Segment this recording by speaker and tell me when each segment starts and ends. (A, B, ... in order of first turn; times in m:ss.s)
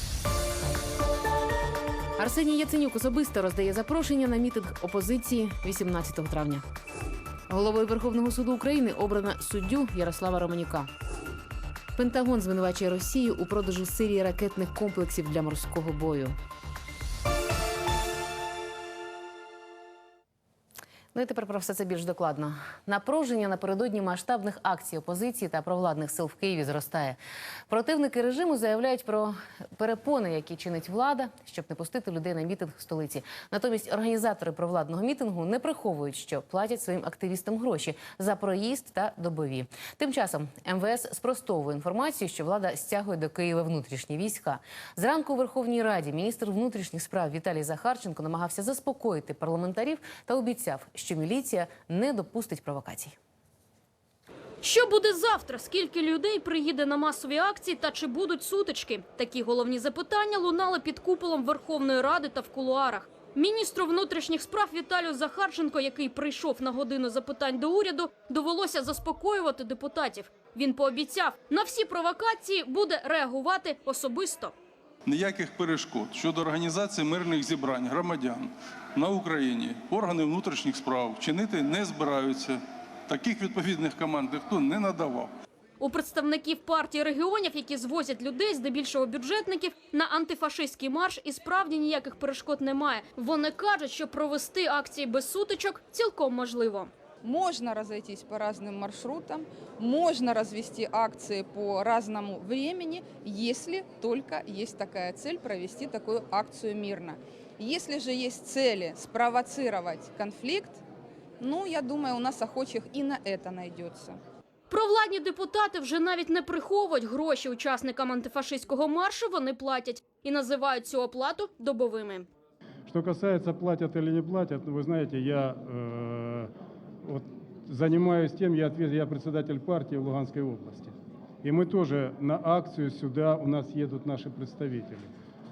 0:02.2-0:06.6 A
0:07.5-0:10.9 A
0:12.0-0:16.4 A
0:21.2-0:27.2 A
0:27.7-0:53.2 A
0:54.6-1:14.6 B
1:15.1-1:25.3 C
1:25.8-1:36.9 B
1:37.2-1:50.8 D
1:51.4-1:54.2 D
1:54.7-2:02.3 B
2:02.9-2:06.5 E
2:07.0-2:15.1 E